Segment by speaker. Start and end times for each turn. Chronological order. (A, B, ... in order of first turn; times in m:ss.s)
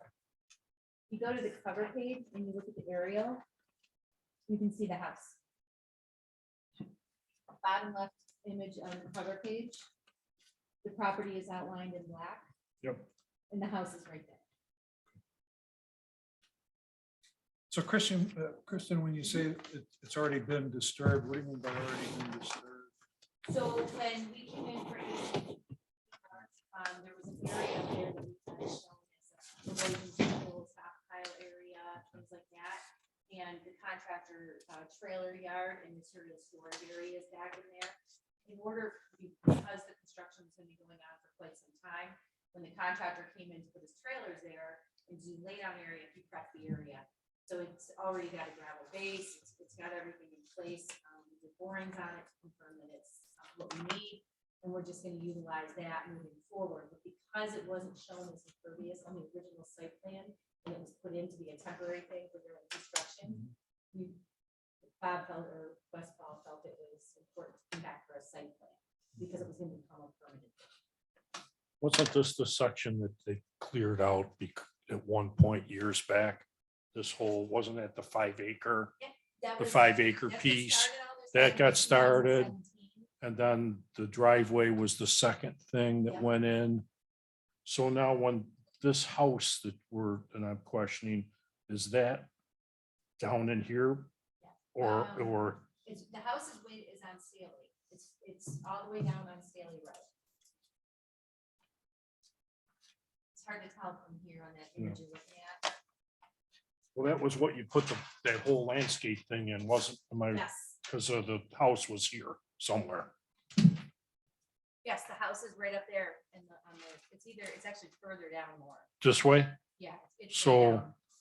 0:01.1-0:03.4 A
0:04.5-0:05.4 A
0:07.6-0:09.8 A
0:10.8-0:12.5 A
0:13.5-0:14.4 A
0:17.7-0:22.9 B
0:23.5-0:25.6 A
0:26.2-1:04.2 A
1:05.0-1:10.7 A
1:11.8-1:18.9 C
1:19.0-1:23.1 A
1:19.6-1:22.5 C
1:23.2-1:26.9 C
1:26.1-1:26.3 A
1:27.7-1:32.3 C
1:33.2-1:34.1 C
1:34.4-1:40.1 A
1:34.8-1:35.6 C
1:43.4-1:45.7 A
1:47.0-1:53.1 C
1:50.3-1:50.8 A
1:54.8-1:58.9 A
1:59.0-1:59.6 C
1:59.8-2:01.0 A
2:00.3-2:00.9 C